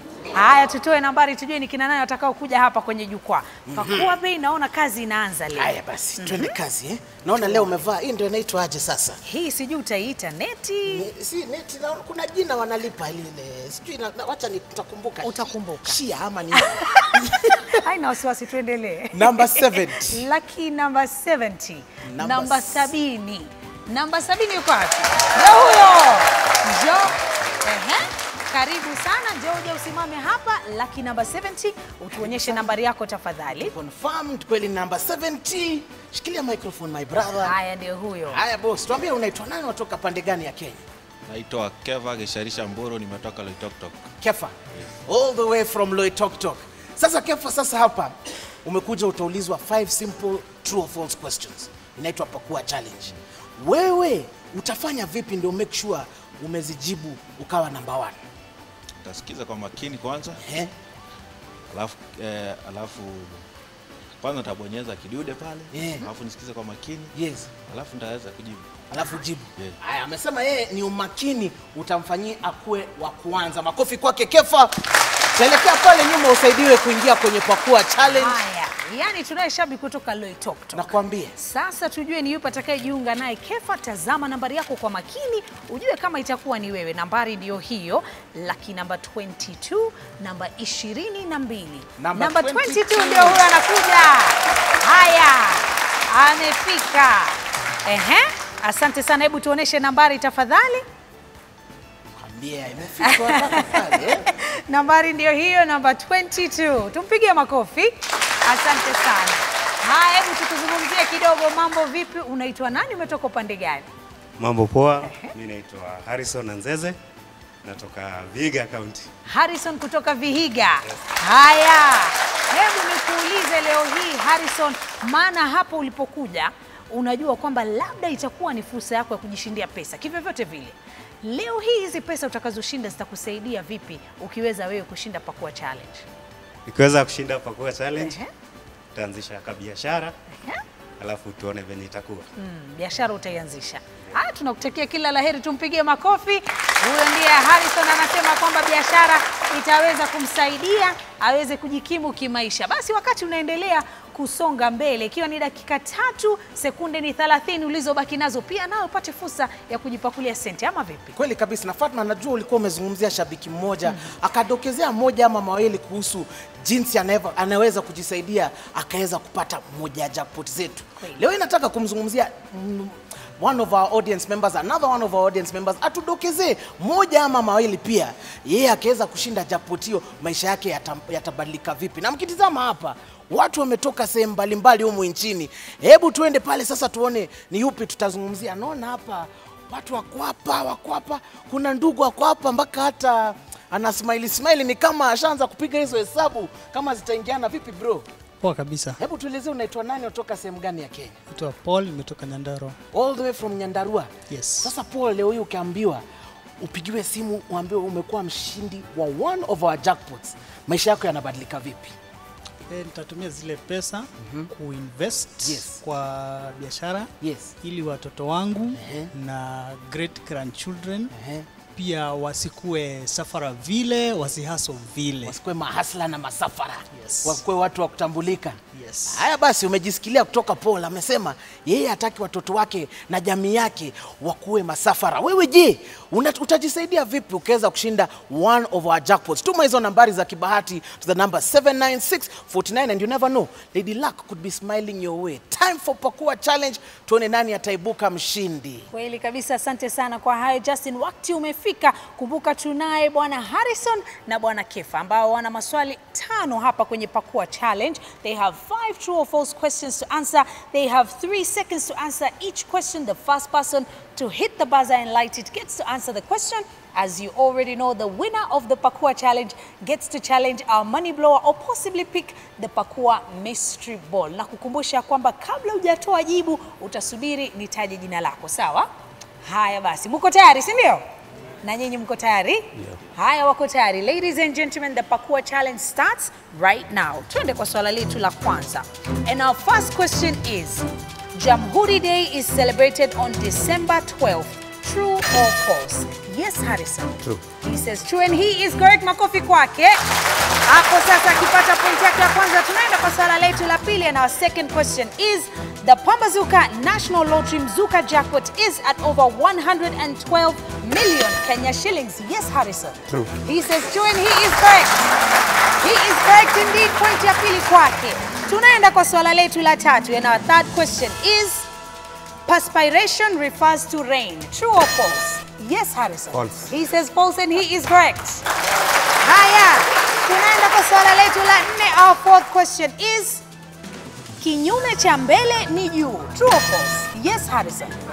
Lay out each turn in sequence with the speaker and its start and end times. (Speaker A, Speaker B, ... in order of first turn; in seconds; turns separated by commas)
Speaker A: 0.3-6.5, Speaker B: 3.7-4.2, Speaker B: 5.5-9.2, Speaker A: 7.3-7.8, Speaker A: 9.2-11.1, Speaker B: 10.9-17.8, Speaker A: 15.2-16.0, Speaker A: 16.5-33.7, Speaker B: 19.1-20.2, Speaker B: 22.1-22.9, Speaker B: 32.2-32.8, Speaker B: 33.5-37.5, Speaker A: 37.4-38.4, Speaker B: 38.3-40.8, Speaker C: 41.3-44.0, Speaker B: 44.2-58.2, Speaker C: 59.0-60.5, Speaker B: 60.4-60.7, Speaker C: 61.7-63.4, Speaker C: 64.2-68.8, Speaker B: 65.7-66.1, Speaker B: 67.1-67.5, Speaker B: 68.9-74.8, Speaker B: 75.3-78.4, Speaker A: 78.1-100.8, Speaker B: 80.7-81.3, Speaker B: 92.0-93.4, Speaker B: 102.2-104.3, Speaker A: 103.1-107.9, Speaker A: 108.4-113.9, Speaker D: 114.4-117.0, Speaker A: 115.0-115.3, Speaker D: 117.6-119.1, Speaker A: 119.3-136.1, Speaker D: 136.7-138.2, Speaker A: 138.0-138.3, Speaker D: 138.9-140.1, Speaker D: 141.0-142.3, Speaker A: 142.4-161.2, Speaker B: 161.2-198.1, Speaker A: 163.8-164.1, Speaker E: 198.4-198.9, Speaker B: 199.0-201.2, Speaker E: 201.3-202.7, Speaker B: 202.9-204.1, Speaker E: 204.3-204.7, Speaker B: 204.6-206.0, Speaker B: 206.6-211.9, Speaker E: 212.7-217.1, Speaker B: 214.2-214.5, Speaker B: 215.4-215.8, Speaker B: 217.2-217.5, Speaker E: 217.6-221.1, Speaker B: 218.7-219.1, Speaker B: 221.1-221.5, Speaker E: 221.8-225.3, Speaker B: 225.2-248.9, Speaker E: 228.7-229.1, Speaker A: 248.9-278.9, Speaker A: 279.4-281.0, Speaker A: 281.6-300.0, Speaker A: 300.6-315.0, Speaker A: 315.8-321.7, Speaker A: 322.4-328.4, Speaker D: 326.3-326.7, Speaker A: 329.2-333.4, Speaker A: 334.4-337.9